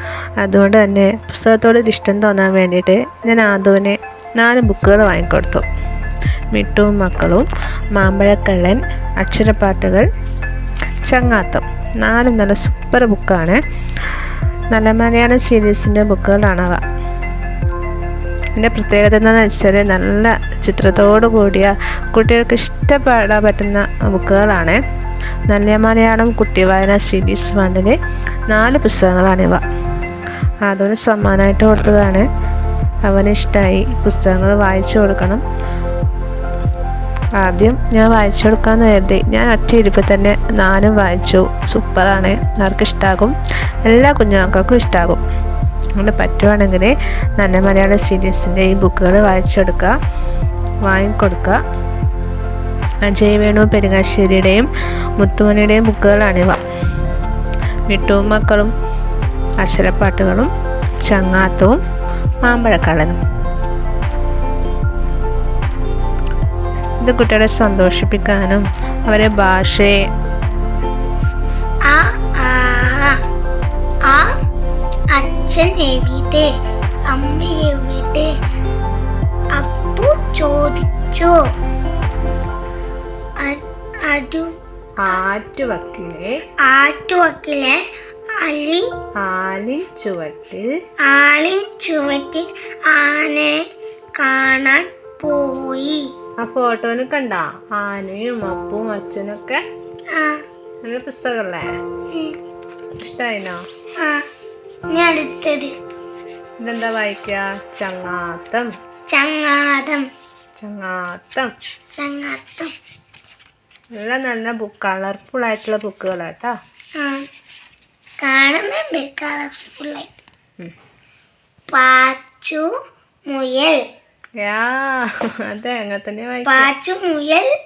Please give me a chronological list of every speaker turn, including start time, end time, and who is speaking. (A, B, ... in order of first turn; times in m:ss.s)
0:00.4-0:05.6 A
0:06.5-0:10.1 A
0:11.0-0:13.6 A
0:14.7-0:16.8 A
0:18.6-0:24.8 A
0:25.5-0:28.0 A
0:28.5-0:29.6 A
0:30.6-0:32.2 A
0:33.0-0:35.4 A
0:37.4-0:45.2 A
0:46.0-0:49.9 A
0:50.8-0:51.6 A
0:53.0-0:54.7 A
0:55.2-0:56.6 A
0:57.9-0:58.7 A
0:59.6-1:00.5 A
1:01.0-1:01.8 A
1:02.4-1:03.2 A
1:07.0-1:10.0 A
1:11.8-1:13.2 B
1:14.0-1:14.3 B
1:15.1-1:16.5 B
1:17.1-1:18.3 B
1:19.5-1:21.5 B
1:23.4-1:24.6 B
1:25.0-1:26.3 A
1:26.6-1:27.8 B
1:28.4-1:28.9 B
1:29.2-1:30.7 A
1:31.0-1:33.6 B
1:34.2-1:36.1 B
1:36.4-1:39.6 A
1:40.1-1:40.4 B
1:40.8-1:41.7 A
1:42.1-1:42.4 B
1:43.0-1:43.6 A
1:44.0-1:44.2 B
1:44.9-1:45.7 B
1:46.6-1:48.7 A
1:49.1-1:50.1 B
1:50.6-1:51.5 A
1:51.9-1:52.7 B
1:53.9-1:56.6 A
1:57.0-1:57.3 B
1:58.2-2:00.2 B
2:01.7-2:02.7 B
2:03.3-2:03.9 B
2:04.4-2:06.7 A
2:06.4-2:07.5 B